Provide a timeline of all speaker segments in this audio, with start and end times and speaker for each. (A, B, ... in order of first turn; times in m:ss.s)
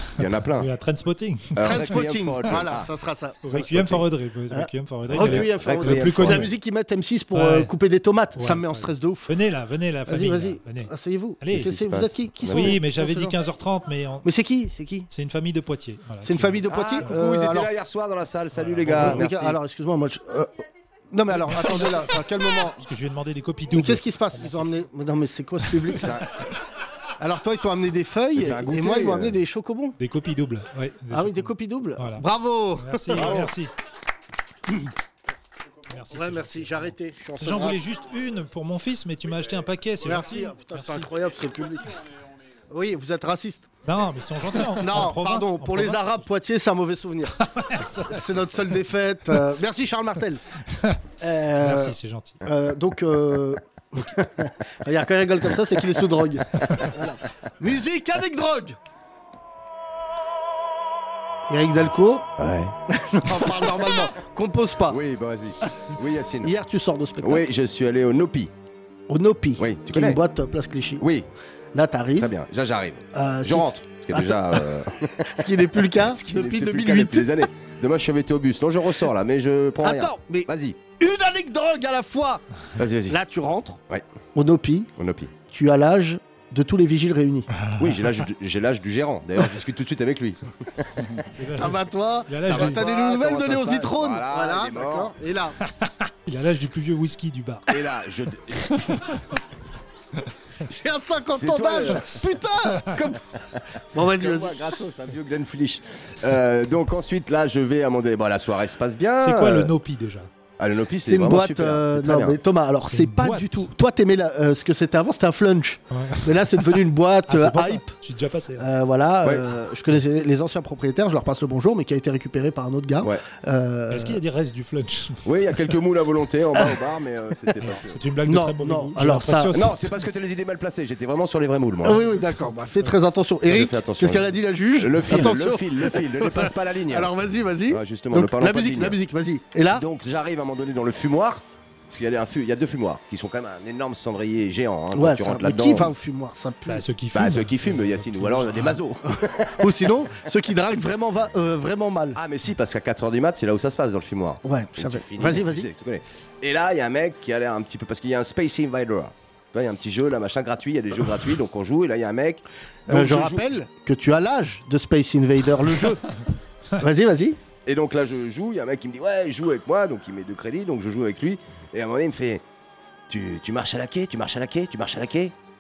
0:00.2-0:00.7 A
0:00.6-0:01.7 B
0:01.6-0:02.9 A
0:01.6-0:09.3 C
0:03.4-0:06.5 B
0:05.1-0:06.5 A
0:07.3-0:07.7 B
0:08.4-0:11.8 B
0:10.1-0:13.4 C
0:11.5-0:12.8 A
0:12.5-0:14.2 B
0:14.2-0:15.1 C
0:15.1-0:17.2 B
0:16.2-0:17.7 C
0:16.7-0:19.6 A
0:18.6-0:19.1 B
0:18.9-0:20.5 C
0:21.1-0:22.8 C
0:21.3-0:22.2 B
0:22.8-0:24.8 B
0:23.7-0:26.1 C
0:25.9-0:26.3 A
0:27.2-0:30.0 C
0:28.4-0:29.4 A
0:30.0-0:32.2 B
0:31.1-0:33.4 C
0:32.8-0:33.7 B
0:33.2-0:33.5 A
0:35.9-0:41.1 B
0:36.1-0:37.8 C
0:40.0-0:41.9 C
0:42.7-0:43.7 C
0:43.8-0:46.2 B
0:44.7-0:47.5 C
0:47.6-0:48.2 B
0:48.1-0:50.4 C
0:51.2-0:51.9 C
0:51.6-0:52.4 B
0:52.5-0:58.8 C
1:01.5-1:02.3 C
1:02.4-1:04.0 A
1:03.0-1:05.0 C
1:04.9-1:06.5 A
1:06.4-1:07.5 C
1:07.2-1:08.5 A
1:09.1-1:11.0 C
1:09.6-1:10.2 A
1:11.0-1:11.3 A
1:11.8-1:12.3 C
1:12.2-1:20.8 A
1:13.2-1:14.6 C
1:15.3-1:17.3 C
1:19.8-1:22.4 C
1:22.8-1:23.2 A
1:23.1-1:23.8 C
1:24.4-1:24.9 C
1:25.0-1:25.3 A
1:25.5-1:27.5 C
1:27.8-1:31.0 A
1:31.3-1:32.9 B
1:31.6-1:35.6 C
1:32.4-1:35.1 A
1:35.8-1:37.7 B
1:37.7-1:38.9 A
1:40.7-1:43.2 C
1:41.3-1:42.2 A
1:43.9-1:44.6 C
1:44.0-1:49.7 A
1:49.2-1:50.3 B
1:50.6-1:52.4 A
1:51.1-1:57.9 C
1:52.8-1:53.7 B
1:55.9-1:56.3 B
1:57.3-1:58.7 B
1:58.6-2:04.2 C
2:03.9-2:05.2 B
2:05.2-2:08.0 A
2:07.6-2:09.9 B
2:08.3-2:09.6 C
2:09.5-2:12.0 A
2:11.8-2:19.8 C
2:13.5-2:17.1 A
2:17.7-2:19.0 A
2:19.7-2:25.9 A
2:24.9-2:26.8 C
2:26.7-2:28.8 B
2:27.1-2:29.6 A
2:29.6-2:32.2 C
2:32.2-2:43.5 A
2:34.4-2:35.7 C
2:42.9-2:46.0 C
2:46.8-2:47.4 C
2:47.7-2:52.4 A
2:53.1-2:55.3 A